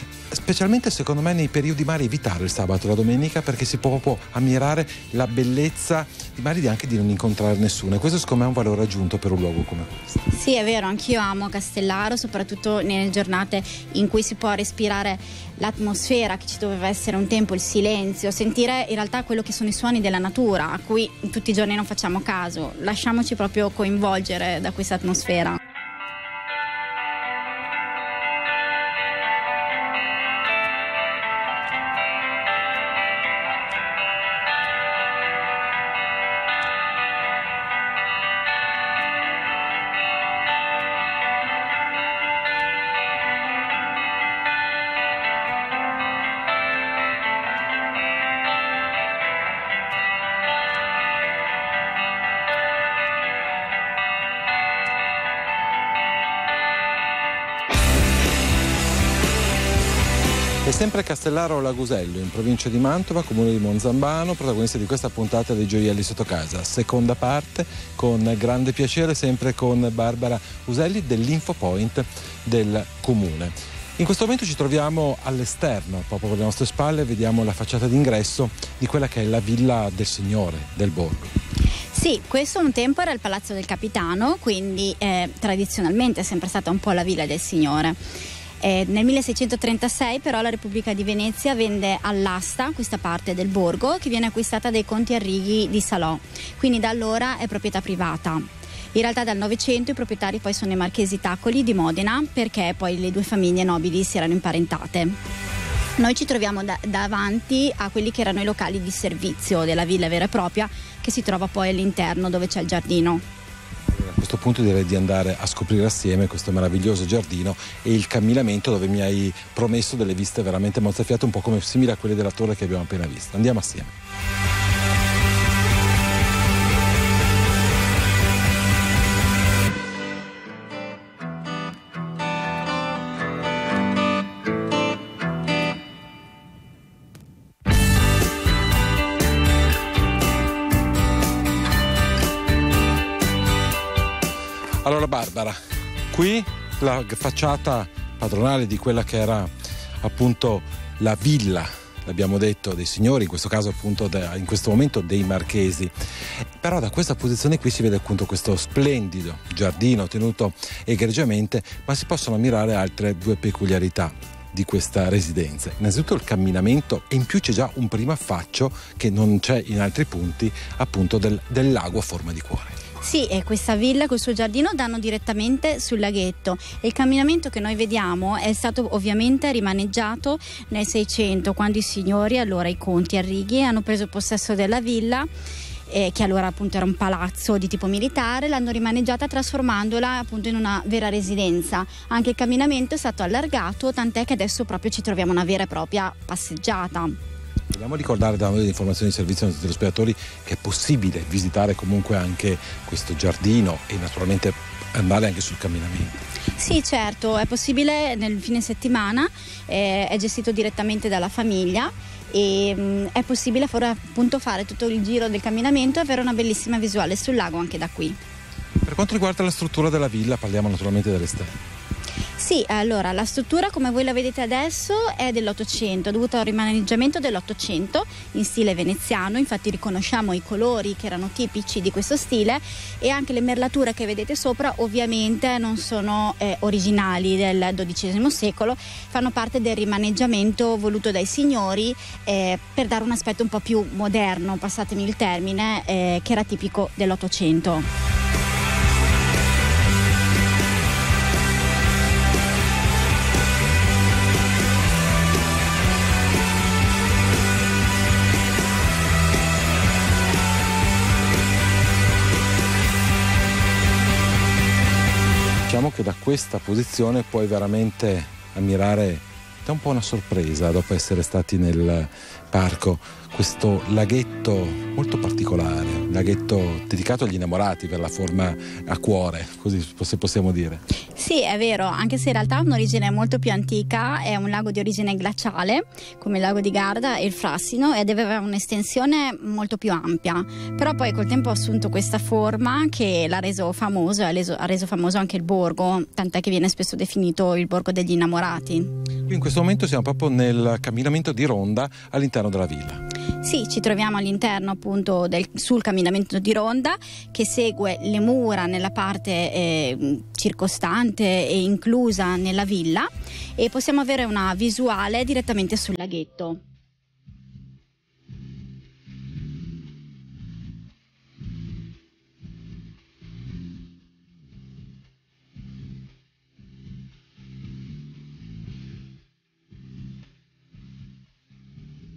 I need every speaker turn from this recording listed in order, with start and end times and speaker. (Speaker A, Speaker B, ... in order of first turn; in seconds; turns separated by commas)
Speaker A: 0.3-10.1, Speaker B: 10.3-25.6, Speaker A: 60.6-81.3, Speaker B: 81.9-88.0, Speaker B: 88.6-105.2, Speaker B: 106.0-113.2, Speaker A: 113.9-123.9, Speaker A: 144.8-145.6, Speaker A: 146.1-155.9, Speaker A: 156.6-172.8, Speaker B: 173.0-185.3, Speaker B: 185.9-197.2, Speaker A: 197.7-206.1, Speaker B: 206.6-218.2, Speaker A: 218.8-221.6, Speaker B: 222.4-247.9, Speaker A: 265.6-280.8, Speaker B: 281.1-298.9, Speaker A: 299.2-303.0, Speaker B: 303.4-316.6